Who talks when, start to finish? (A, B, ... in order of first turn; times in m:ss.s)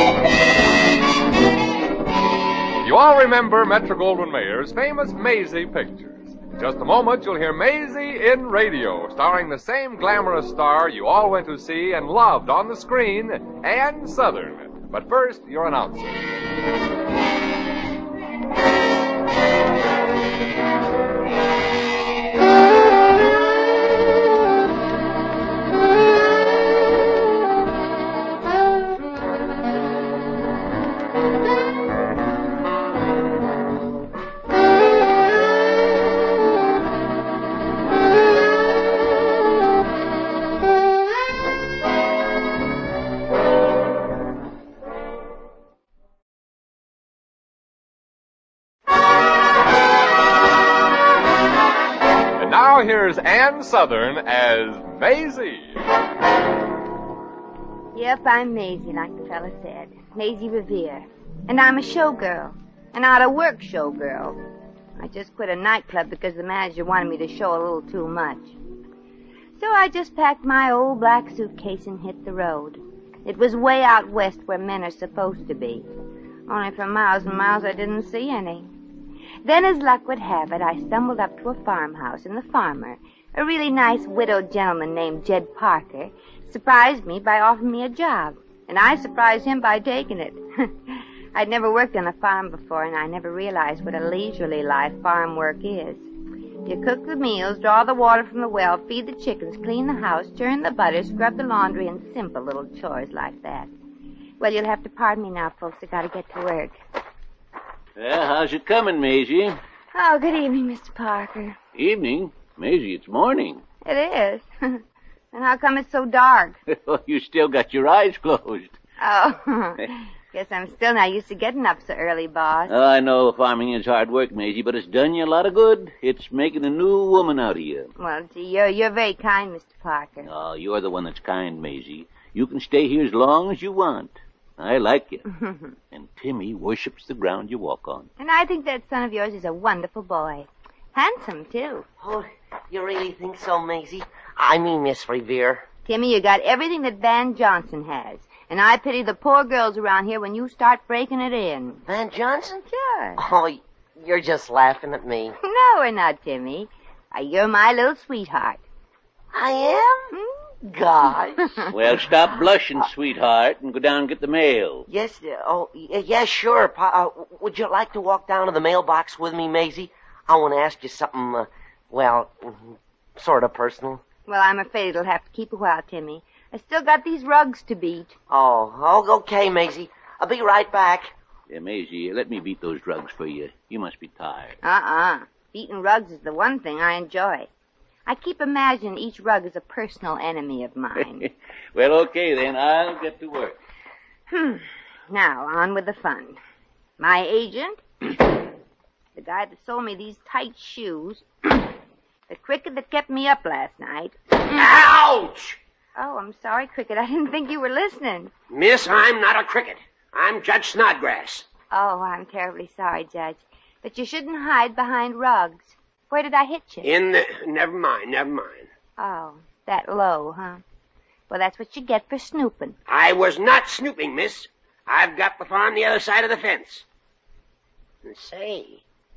0:02.8-0:16.2 A
0:52.4-0:55.7 A
0:57.9-1:04.4 B
1:05.0-1:08.5 B
1:09.6-1:15.9 B
1:16.5-1:18.7 B
1:19.4-1:36.1 B
1:36.6-1:43.7 B
1:44.4-1:46.8 B
1:48.0-1:49.6 C
1:49.9-1:51.6 B
1:51.8-1:53.6 C
1:53.8-1:54.8 B
1:55.3-1:56.6 B
1:56.7-1:58.7 C
1:59.0-2:02.7 B
2:02.7-2:07.9 C
2:08.0-2:10.3 B
2:10.2-2:15.2 C
2:15.3-2:15.7 B
2:15.9-2:18.1 C
2:18.2-2:21.8 B
2:22.0-2:25.6 D
2:25.8-2:31.8 B
2:31.8-2:32.6 D
2:32.7-2:33.2 B
2:33.2-2:35.4 D
2:35.4-2:38.6 B
2:39.3-2:40.1 D
2:40.1-2:40.4 B
2:40.6-2:41.6 D
2:41.7-2:44.9 C
2:44.9-2:54.0 D
2:54.3-2:58.1 B
2:58.3-3:01.1 D
3:01.5-3:04.6 C
3:04.6-3:07.5 B
3:08.0-3:11.2 B
3:11.0-3:13.6 C
3:14.3-3:16.4 B
3:17.0-3:18.2 B
3:19.2-3:21.7 B
3:22.3-3:24.7 B
3:24.5-3:25.6 E
3:26.0-3:28.3 B
3:28.5-3:31.4 E
3:31.7-3:36.9 B
3:36.8-3:38.7 E
3:39.0-3:40.6 B
3:41.3-3:42.8 B
3:42.9-3:46.8 E
3:48.0-3:48.8 E